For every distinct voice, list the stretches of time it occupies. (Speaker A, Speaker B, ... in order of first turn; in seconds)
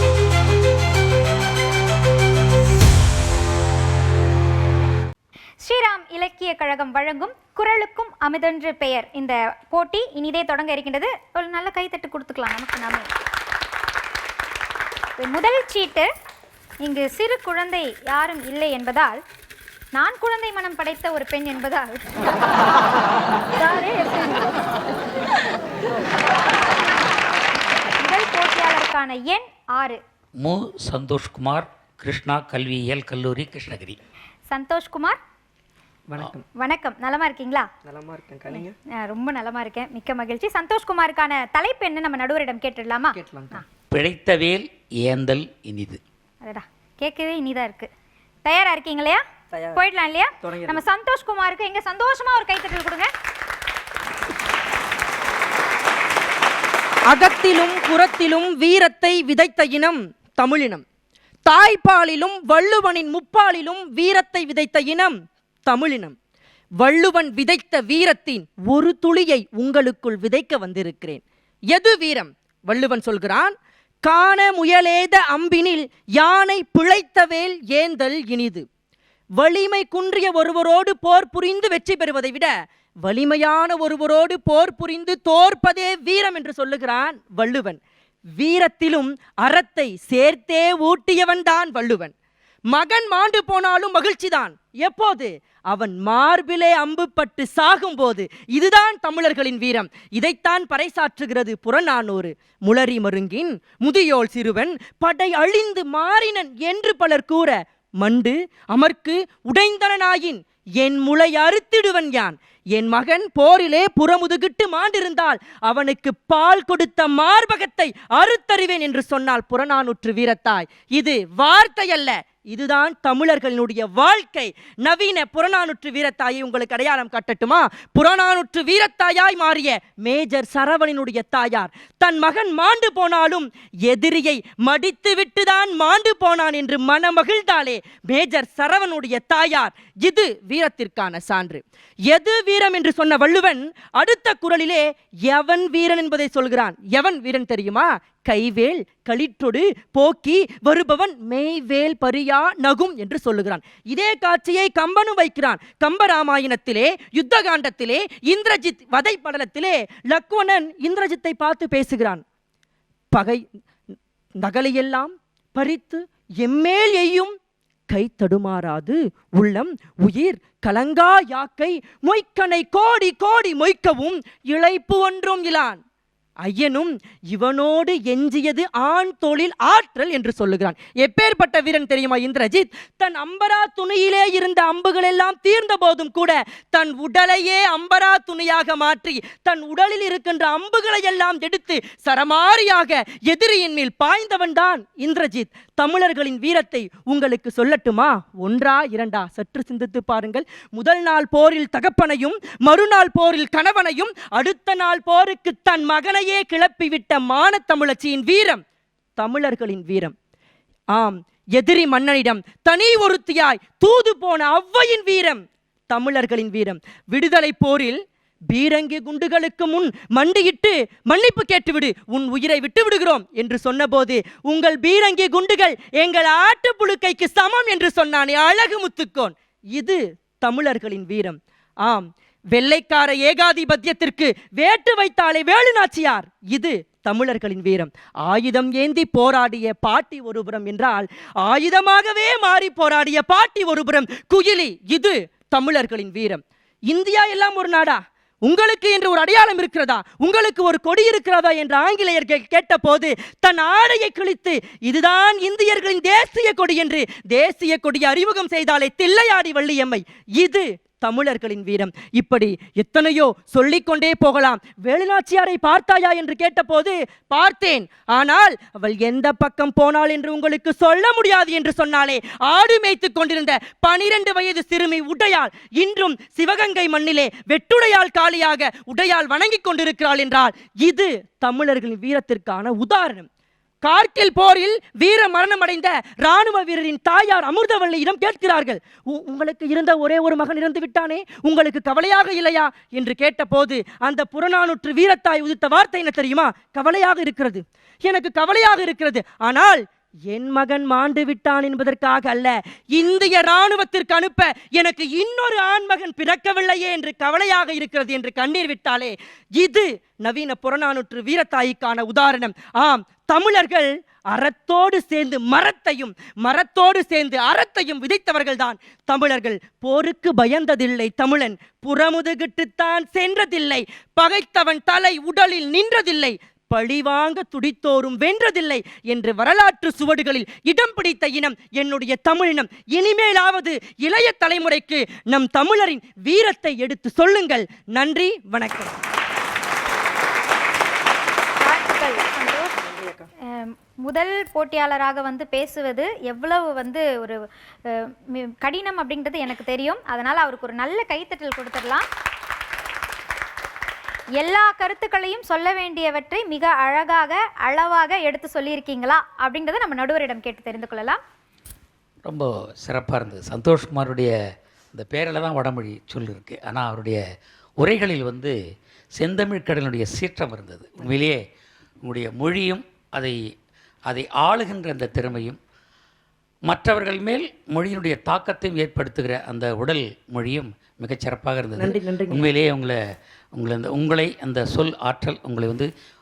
Speaker A: 5.6-13.1, 15.2-16.1, 16.8-19.2, 19.9-22.3, 23.6-24.4, 28.0-30.0, 34.5-35.2, 36.5-37.7, 38.5-43.6, 46.4-47.9, 48.4-53.1, 341.6-342.7, 343.4-352.1, 354.4-361.2
Speaker B: 30.4-34.0, 43.9-46.0, 362.2-364.3, 364.9-367.2, 367.8-368.5, 369.1-371.4, 372.0-373.4, 374.1-375.6, 376.6-383.0, 383.5-385.9
Speaker C: 36.1-36.4, 37.8-38.7, 43.1-43.6, 49.5-49.8, 50.4-50.8, 342.8-343.3, 381.8-382.4
Speaker D: 57.1-60.8, 61.5-65.1, 65.7-66.1, 66.8-78.6, 79.4-82.5, 83.0-87.8, 88.3-92.1, 92.7-162.2, 163.1-163.4, 164.4-167.3, 167.9-175.8, 176.4-208.6, 209.2-210.1, 210.9-218.0, 218.5-283.2, 283.8-338.9